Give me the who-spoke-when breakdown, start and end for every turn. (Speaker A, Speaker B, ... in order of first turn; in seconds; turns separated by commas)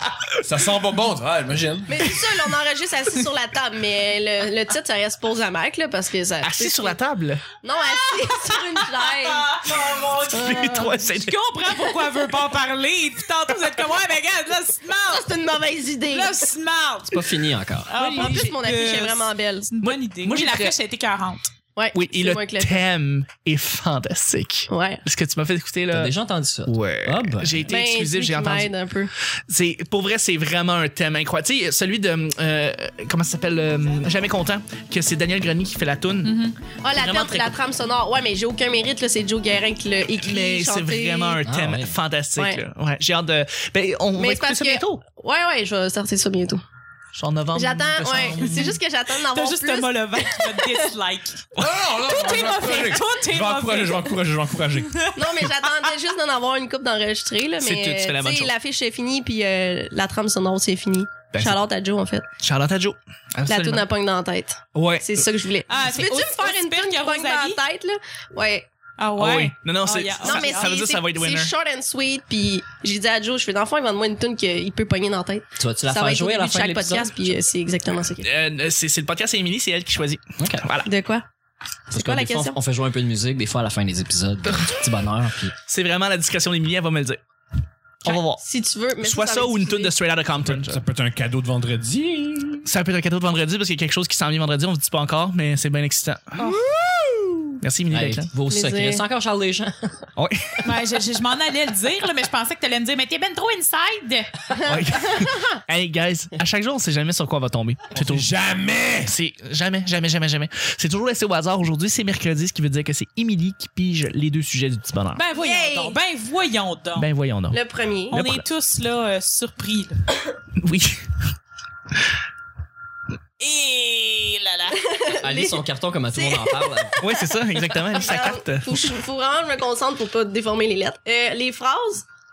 Speaker A: 0.4-2.1, Speaker B: 1.9-7.0, Speaker C: 6.4-7.4, Speaker B: 7.6-9.7, Speaker D: 7.8-15.4, Speaker C: 9.7-11.3, Speaker B: 10.3-11.0, Speaker B: 15.1-16.5, Speaker D: 16.1-21.5, Speaker E: 17.1-17.9, Speaker B: 17.9-19.7, Speaker C: 19.8-20.7, Speaker B: 21.8-22.8, Speaker C: 21.9-26.1, Speaker B: 24.7-25.0, Speaker E: 25.9-27.7, Speaker C: 26.6-28.7, Speaker B: 27.6-29.1, Speaker C: 29.5-36.4, Speaker D: 36.2-36.6, Speaker B: 36.8-41.4, Speaker C: 36.9-37.6, Speaker C: 40.2-45.0, Speaker E: 41.4-41.9, Speaker B: 42.3-42.6, Speaker B: 44.1-46.6, Speaker C: 47.1-48.8, Speaker B: 47.5-50.8, Speaker D: 49.1-51.5, Speaker A: 51.6-55.1, Speaker D: 52.0-54.2, Speaker D: 54.9-55.9, Speaker B: 55.1-62.2, Speaker C: 57.6-58.5, Speaker C: 61.3-61.6, Speaker C: 62.4-63.9, Speaker B: 63.5-68.7, Speaker C: 64.7-65.2, Speaker D: 65.7-67.6, Speaker D: 69.0-70.9, Speaker C: 69.2-71.5, Speaker B: 70.2-78.2, Speaker E: 75.6-77.3, Speaker C: 78.2-80.9, Speaker E: 80.4-80.7, Speaker B: 80.8-81.2, Speaker B: 81.9-82.6, Speaker E: 81.9-85.5, Speaker C: 85.7-87.2, Speaker C: 88.0-88.4, Speaker B: 88.1-89.9, Speaker C: 89.0-90.8, Speaker A: 90.4-92.7, Speaker C: 92.6-96.5, Speaker B: 96.4-97.5, Speaker C: 97.6-98.3, Speaker E: 97.9-100.0, Speaker B: 98.5-99.0, Speaker C: 100.2-100.6, Speaker D: 100.6-104.4, Speaker B: 104.5-105.6, Speaker C: 104.7-108.3, Speaker A: 107.9-109.1, Speaker C: 109.0-115.2, Speaker D: 115.1-117.1, Speaker B: 115.3-116.0, Speaker C: 117.0-117.6, Speaker B: 117.5-118.2, Speaker D: 118.1-120.0, Speaker C: 118.1-118.4, Speaker C: 120.6-121.1, Speaker D: 123.4-124.9, Speaker B: 124.9-132.0, Speaker E: 125.2-127.0, Speaker C: 127.0-128.9